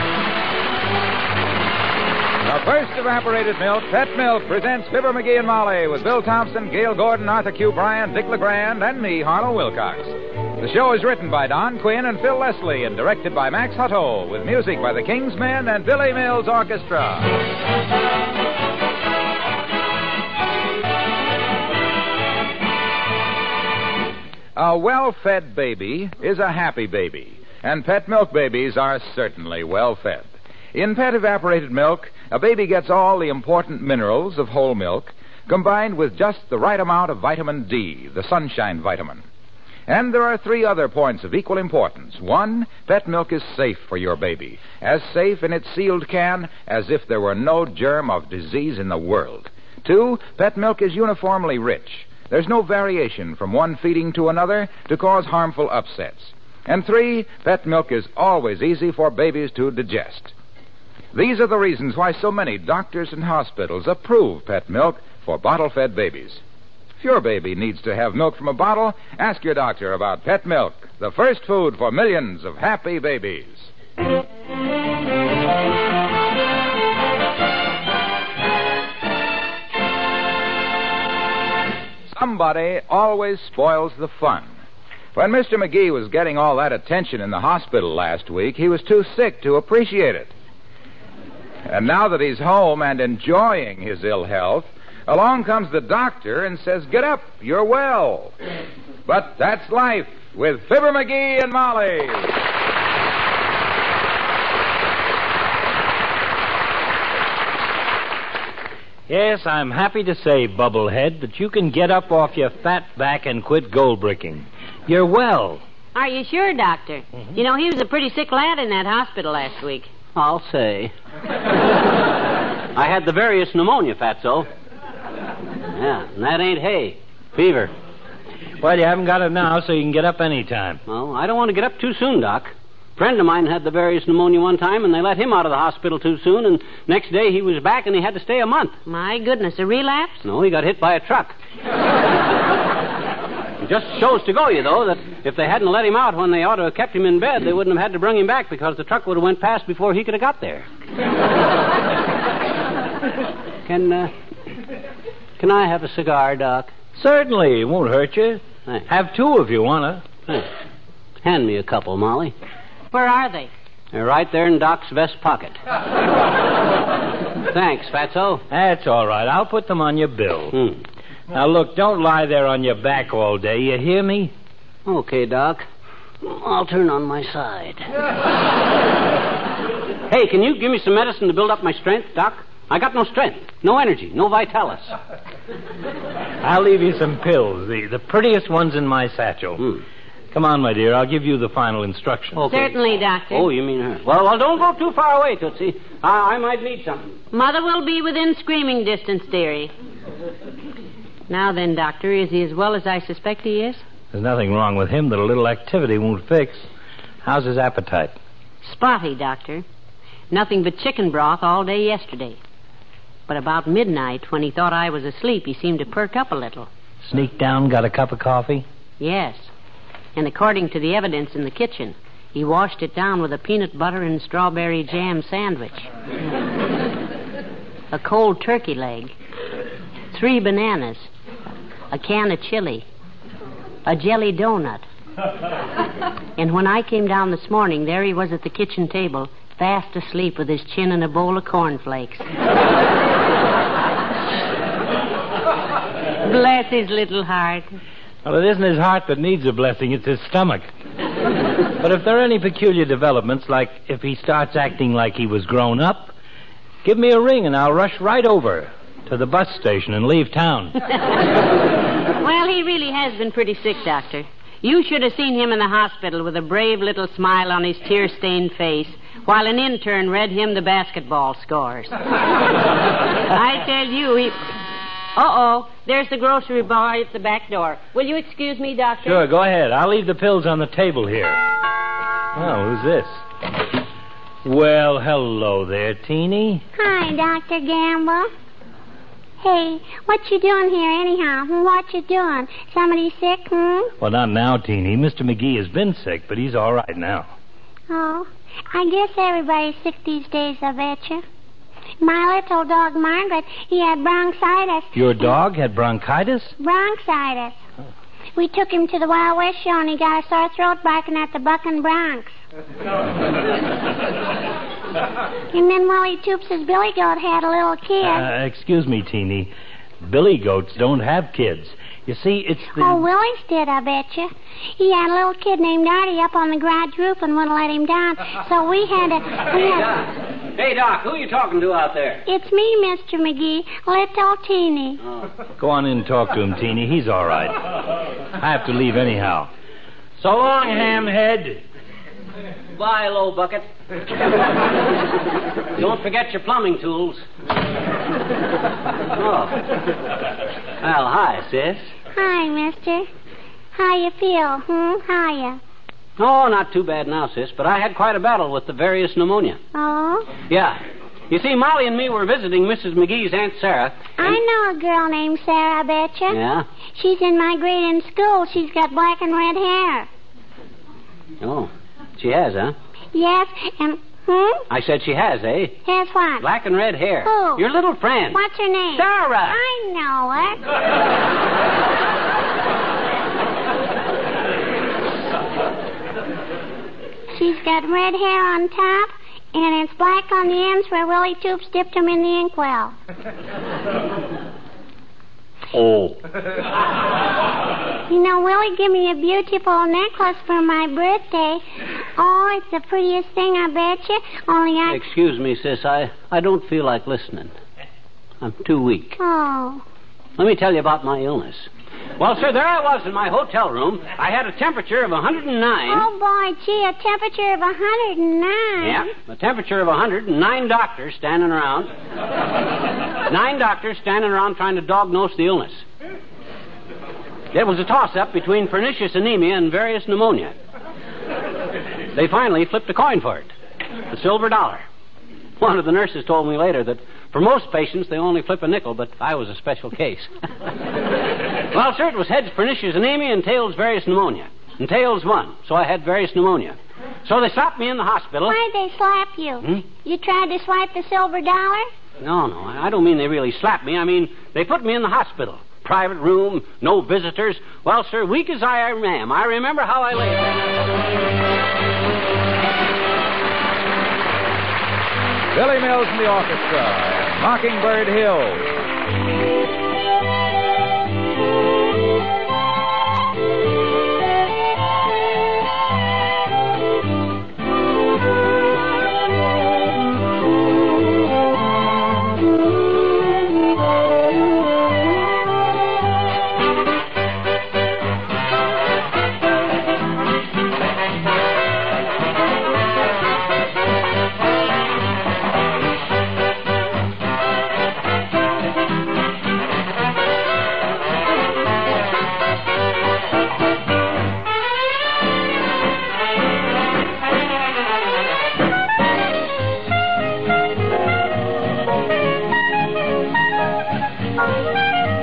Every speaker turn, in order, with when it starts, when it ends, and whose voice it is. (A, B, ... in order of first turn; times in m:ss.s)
0:02.4-0:17.4 A
0:24.6-0:39.2 A
0:39.9-1:00.3 A
1:01.1-1:06.4 A
1:07.0-1:13.7 A
1:22.1-1:24.5 A
1:25.1-1:30.3 A
1:31.6-1:38.3 A
1:39.0-1:42.3 A
1:49.1-1:55.6 B
1:55.9-1:59.9 C
2:00.1-2:00.9 D
2:02.7-2:04.5 D
2:05.7-2:07.7 D
2:08.6-2:10.8 B
2:10.9-2:18.8 D
2:18.8-2:20.2 C
2:20.2-2:21.4 D
2:23.6-2:30.7 D
2:33.6-2:34.1 D
2:35.4-2:36.7 D
2:37.0-2:40.0 B
2:41.2-2:42.3 D
2:42.9-2:43.5 C
2:43.9-2:45.6 D
2:47.5-2:48.4 D
2:48.5-2:50.5 B
2:50.5-2:50.8 D
2:51.3-2:54.3 B
2:54.8-2:55.6 D
2:56.2-2:57.9 D
3:00.1-3:04.9 D
3:06.4-3:09.6 B
3:10.3-3:12.4 B
3:12.4-3:17.2 D
3:12.4-3:13.5 C
3:17.3-3:19.7 C
3:21.3-3:23.8 C
3:24.1-3:26.6 B
3:27.2-3:28.1 B
3:28.6-3:29.6 C
3:30.3-3:32.4 C
3:33.3-3:36.7 C
3:37.0-3:38.6 B
3:39.0-3:39.5 C
3:40.1-3:45.9 C
3:47.9-3:49.1 C
3:50.1-3:51.1 C
3:51.9-3:52.8 C
3:53.8-3:54.8 C
3:56.4-4:02.3 C
4:06.2-4:07.7 C
4:08.2-4:10.7 B
4:11.8-4:16.1 B
4:16.8-4:20.8 B
4:22.2-4:32.0 C
4:33.3-4:34.4 C
4:35.1-4:39.2 C
4:39.0-4:41.4 B
4:42.3-4:43.2 B
4:44.4-4:46.6 B
4:46.7-4:48.3 E
4:49.4-4:53.9 E
4:54.0-4:57.3 B
4:57.9-5:01.2 E
5:02.0-5:05.3 E
5:04.9-5:06.5 B
5:06.6-5:07.6 E
5:08.4-5:12.4 E
5:15.5-5:18.3 E
5:18.0-5:19.5 B
5:20.0-5:23.0 B
5:22.8-5:29.9 E
5:29.6-5:32.2 D
5:32.2-5:35.0 E
5:35.6-5:37.6 B
5:38.4-5:39.5 B
5:40.2-5:41.6 B
5:42.8-5:43.7 D
5:45.8-5:47.2 D
5:49.1-5:49.7 D
5:50.8-5:51.9 D
5:52.1-5:53.1 E
5:53.7-5:55.6 E
5:56.2-5:59.6 D
5:59.7-6:00.4 E
6:00.5-6:04.3 D
6:04.2-6:06.4 E
6:06.3-6:06.6 D
6:06.9-6:10.1 E
6:11.4-6:12.8 D
6:13.1-6:14.6 E
6:14.7-6:15.8 D
6:15.8-6:16.4 E
6:16.4-6:18.4 D
6:17.2-6:17.6 E
6:18.3-6:20.6 E
6:18.9-6:19.6 D
6:27.3-6:32.9 E
6:35.7-6:36.2 D
6:38.1-6:45.0 E
6:44.9-6:47.5 D
6:48.4-6:49.2 D
6:49.2-6:49.8 E
6:50.4-6:56.1 D
6:55.9-6:59.0 E
6:58.8-7:01.9 D
7:03.3-7:05.8 D
7:07.5-7:10.5 D
7:12.1-7:13.5 D
7:14.1-7:14.8 D
7:15.6-7:20.3 D
7:21.7-7:28.6 D
7:28.5-7:31.9 E
7:32.2-7:40.7 D
7:45.5-7:48.7 A